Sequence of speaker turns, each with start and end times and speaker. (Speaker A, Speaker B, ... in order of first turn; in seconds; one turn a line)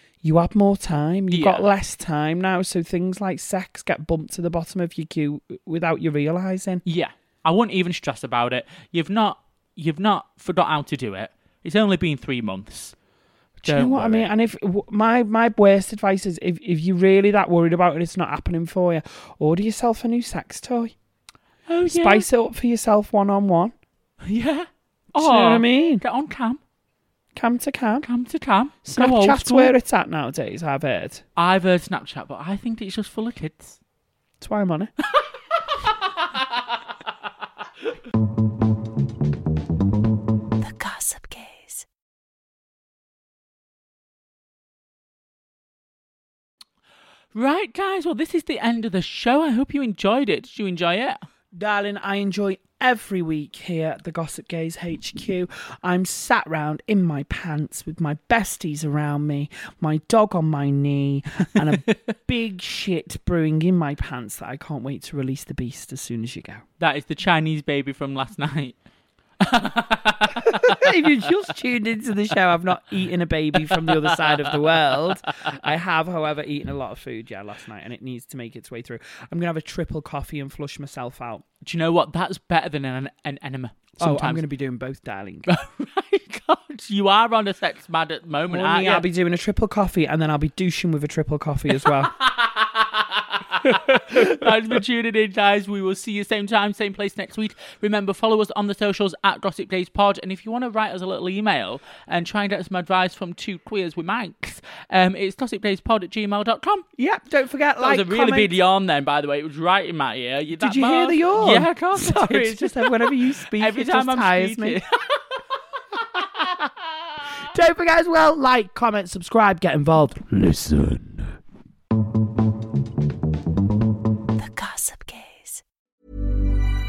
Speaker A: 0.2-6.8
Speaker B: 1.3-1.6
Speaker B: 6.8-12.9
Speaker A: 13.6-20.9
Speaker B: 13.7-14.3
Speaker B: 21.7-22.2
Speaker A: 21.9-23.7
Speaker B: 24.2-26.6
Speaker A: 25.1-26.0
Speaker A: 27.3-28.1
Speaker B: 28.0-29.7
Speaker A: 28.9-31.2
Speaker B: 31.4-33.8
Speaker A: 34.4-34.9
Speaker B: 35.7-36.6
Speaker C: 40.6-41.8
Speaker B: 47.3-51.2
Speaker A: 51.5-66.6
Speaker B: 66.8-68.8
Speaker B: 69.4-70.9
Speaker A: 70.4-81.4
Speaker B: 73.8-74.1
Speaker B: 81.6-84.4
Speaker A: 84.0-85.5
Speaker B: 85.5-89.0
Speaker A: 88.5-92.1
Speaker B: 91.8-106.8
Speaker A: 93.6-94.3
Speaker A: 107.0-108.5
Speaker B: 107.8-115.4
Speaker A: 110.5-114.8
Speaker A: 117.3-121.4
Speaker C: 124.3-125.6